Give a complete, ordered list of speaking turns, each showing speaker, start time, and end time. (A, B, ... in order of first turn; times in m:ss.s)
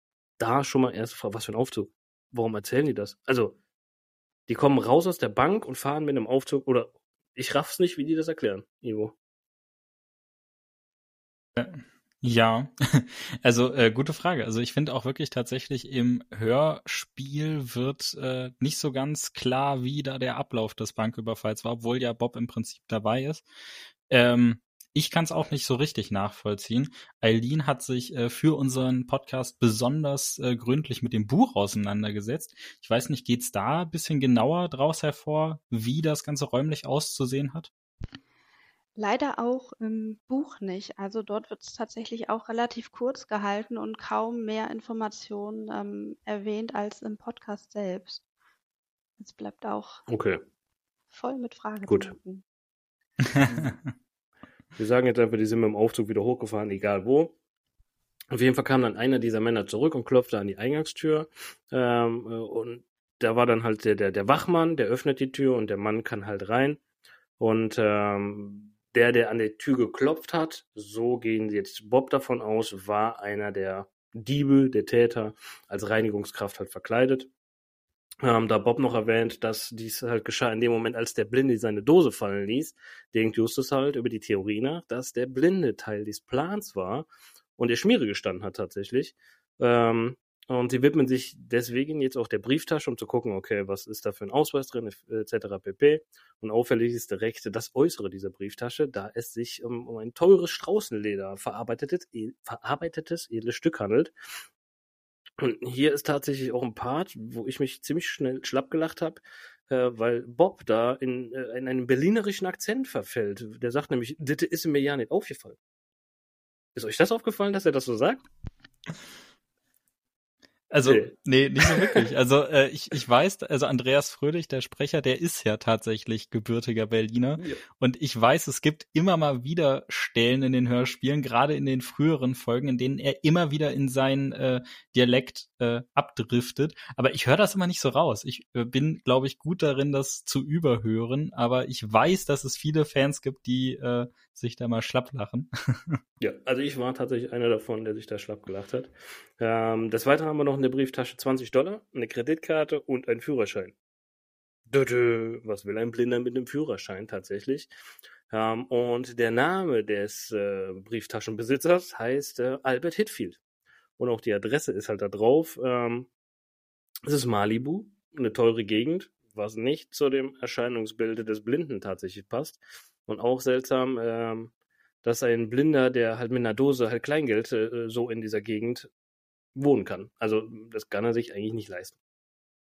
0:00.4-0:03.6 A
0:04.5-0:09.1 A
0:11.6-0:23.4 B
0:24.1-0:37.7 B
0:39.0-0:48.2 C
0:49.2-0:50.0 C
0:50.1-0:50.4 A
0:51.1-0:52.4 C
0:51.9-0:52.1 A
0:54.8-0:57.4 A
0:58.3-1:06.8 A
1:07.4-1:17.3 A
1:18.2-1:44.1 A
1:45.4-1:55.6 A
1:56.8-1:58.2 A
2:00.7-2:26.0 B
2:00.8-2:02.1 A
2:26.2-2:33.8 A
2:34.7-2:37.7 A
2:38.3-2:43.4 A
2:44.0-2:46.1 A
2:47.0-2:58.9 A
2:59.5-3:02.0 A